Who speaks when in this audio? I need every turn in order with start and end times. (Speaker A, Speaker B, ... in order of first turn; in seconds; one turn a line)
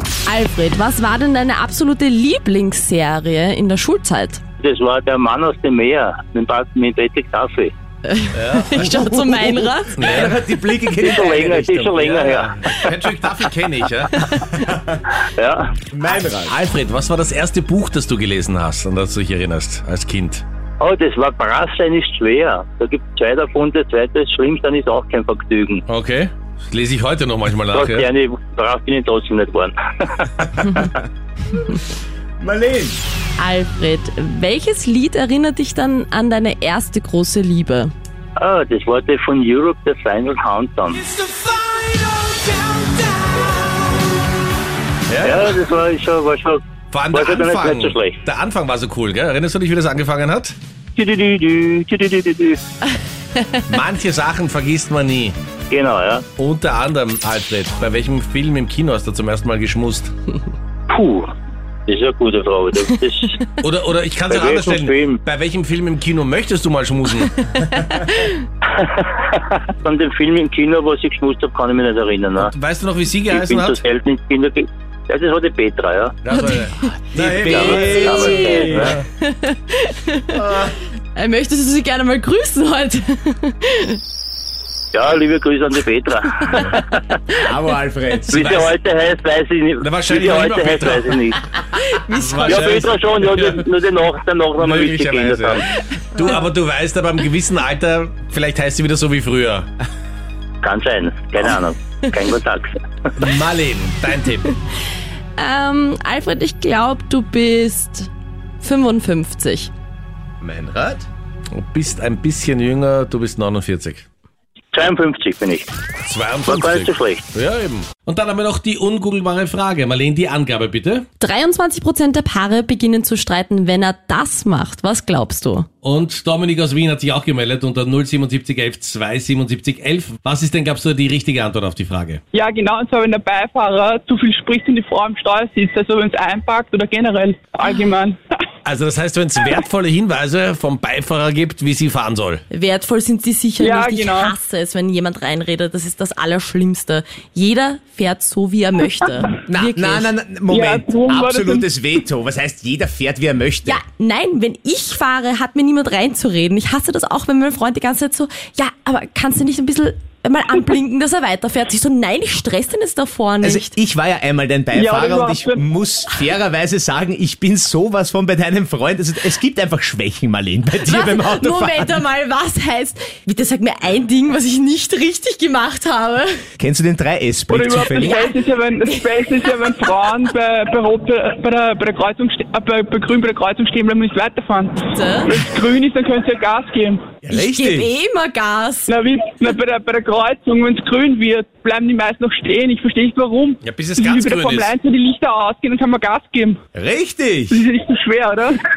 Speaker A: 0.3-4.4
Speaker B: 4.6-7.7
Speaker A: 8.1-10.3
Speaker C: 8.3-8.9
Speaker D: 8.9-11.9
Speaker C: 10.0-10.3
Speaker B: 11.0-12.9
Speaker C: 11.9-14.3
Speaker D: 14.3-15.1
Speaker B: 15.2-15.7
Speaker D: 15.9-16.5
Speaker C: 16.4-20.4
Speaker B: 20.8-25.8
Speaker C: 25.9-28.1
Speaker B: 27.7-30.9
Speaker D: 32.4-33.0
Speaker A: 33.4-37.9
Speaker B: 38.4-41.0
Speaker C: 41.1-43.5
Speaker C: 45.1-45.6
Speaker B: 45.2-46.6
Speaker C: 46.9-50.5
Speaker B: 47.1-48.2
Speaker B: 50.9-52.6
Speaker C: 53.6-55.4
Speaker B: 55.7-56.2
Speaker C: 56.4-60.1
Speaker B: 60.9-61.3
Speaker B: 61.9-63.4
Speaker C: 63.6-67.4
Speaker B: 64.3-65.2
Speaker A: 68.0-68.3
Speaker B: 68.6-72.5
Speaker C: 72.4-73.8
Speaker B: 73.3-76.2
Speaker C: 76.2-79.0
Speaker A: 76.3-76.9
Speaker D: 77.1-78.9
Speaker B: 77.4-79.0
Speaker A: 77.8-80.4
Speaker C: 80.4-80.7
Speaker A: 81.1-84.0
Speaker B: 84.9-87.2
Speaker D: 87.3-88.6
Speaker B: 88.3-91.4
Speaker C: 88.3-88.8
Speaker C: 89.8-91.2
Speaker A: 91.7-92.7
Speaker C: 92.1-93.6
Speaker B: 92.4-95.6
Speaker C: 94.6-99.7
Speaker B: 100.6-102.8
Speaker C: 103.2-104.5
Speaker A: 105.4-108.1
Speaker A: 108.6-109.7
Speaker C: 110.4-114.1
Speaker B: 114.7-115.7
Speaker C: 116.0-121.0
Speaker B: 116.5-117.2
Speaker A: 121.2-125.7
Speaker C: 125.8-132.2
Speaker E: 132.3-138.2
Speaker C: 138.6-142.4
Speaker A: 142.5-150.1
Speaker E: 143.6-144.3
Speaker D: 149.5-153.8
Speaker E: 150.5-151.6
Speaker A: 153.7-163.7
Speaker D: 163.4-172.0
Speaker E: 164.7-165.6
Speaker A: 170.8-176.3
Speaker D: 176.6-178.2
Speaker E: 177.5-184.7
Speaker A: 177.9-180.1
Speaker A: 184.8-185.4
Speaker E: 185.3-187.1
Speaker D: 187.2-187.9
Speaker A: 187.3-188.9
Speaker E: 188.9-196.6
Speaker C: 193.6-194.7
Speaker D: 196.8-197.6
Speaker E: 197.5-198.6